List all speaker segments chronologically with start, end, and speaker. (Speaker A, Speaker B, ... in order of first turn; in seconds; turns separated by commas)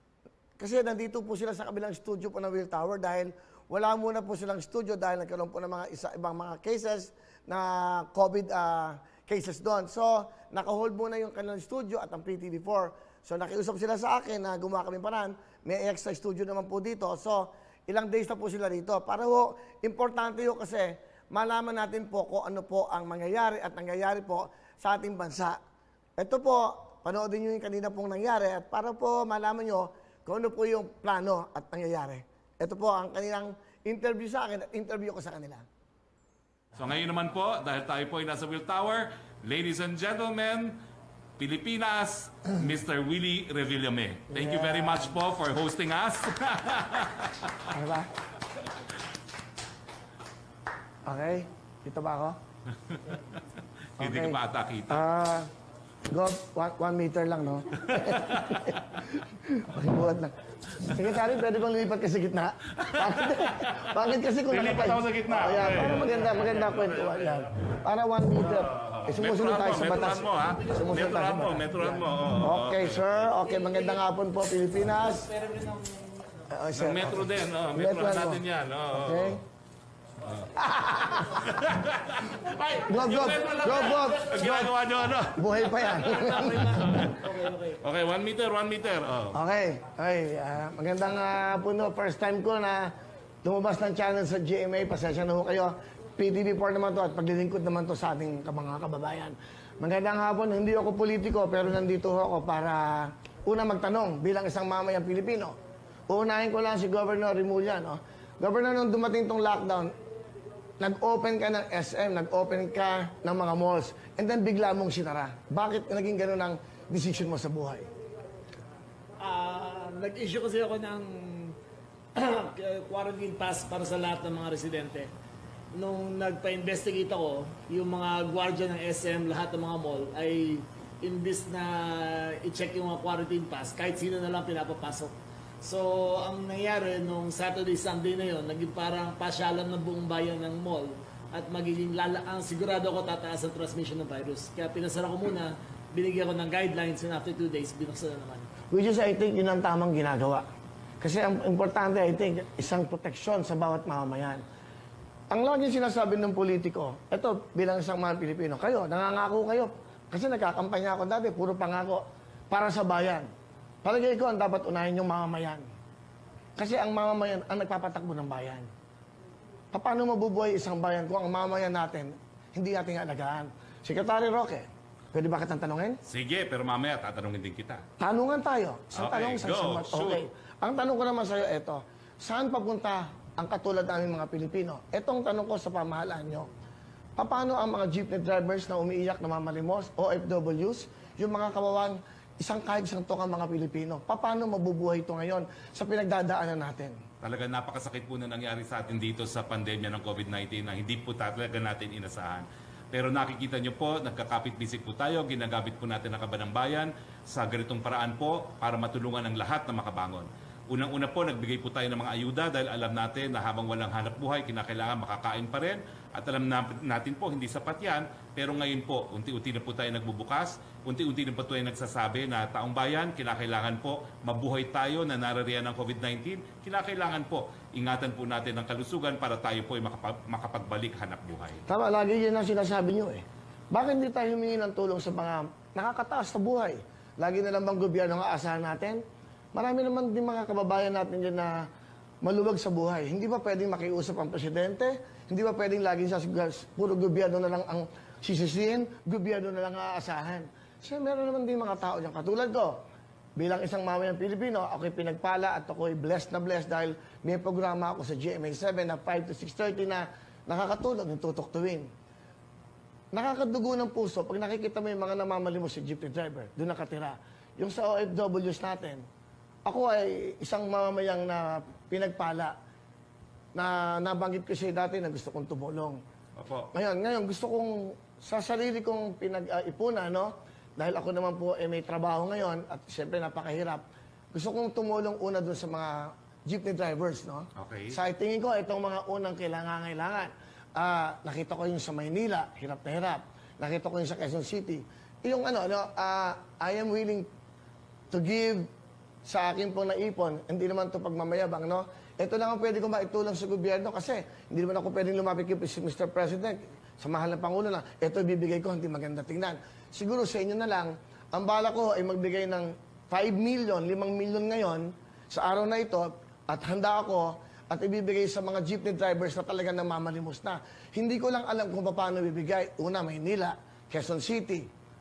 Speaker A: 0.6-25.6, Speaker A: 26.2-35.7, Speaker B: 36.8-40.8, Speaker B: 41.4-47.5, Speaker A: 44.3-45.1, Speaker A: 47.7-48.1, Speaker A: 51.1-52.4, Speaker B: 52.9-53.4, Speaker B: 54.0-55.0, Speaker A: 54.0-55.5, Speaker A: 56.1-60.4, Speaker B: 57.9-59.0, Speaker A: 60.9-75.3, Speaker B: 62.8-67.4, Speaker B: 68.5-73.3, Speaker C: 75.3-76.0, Speaker A: 76.5-78.4, Speaker B: 76.8-79.4, Speaker A: 78.9-79.4, Speaker B: 80.2-80.5, Speaker A: 80.6-81.4, Speaker B: 81.1-87.3, Speaker A: 82.9-84.7, Speaker A: 85.3-86.7, Speaker C: 86.2-87.8, Speaker B: 87.8-89.4, Speaker A: 89.3-92.9, Speaker A: 93.4-105.6, Speaker A: 106.1-109.9, Speaker A: 110.8-117.9, Speaker C: 119.2-121.6, Speaker C: 122.2-125.1, Speaker C: 125.7-148.5, Speaker A: 148.7-150.4, Speaker A: 151.0-154.4, Speaker A: 155.3-163.3, Speaker A: 163.8-165.7, Speaker A: 166.6-168.7, Speaker A: 169.7-176.0, Speaker B: 176.1-177.8, Speaker A: 178.0-186.5, Speaker B: 178.9-180.2, Speaker A: 187.2-197.0, Speaker B: 197.2-231.6, Speaker A: 231.7-239.0, Speaker A: 239.5-241.7, Speaker A: 242.2-252.8, Speaker A: 253.4-261.9, Speaker A: 263.1-269.0, Speaker A: 269.7-272.5, Speaker A: 273.6-276.0, Speaker B: 276.4-276.7, Speaker A: 276.7-297.3, Speaker B: 287.6-288.0, Speaker A: 298.1-298.7, Speaker A: 299.2-324.7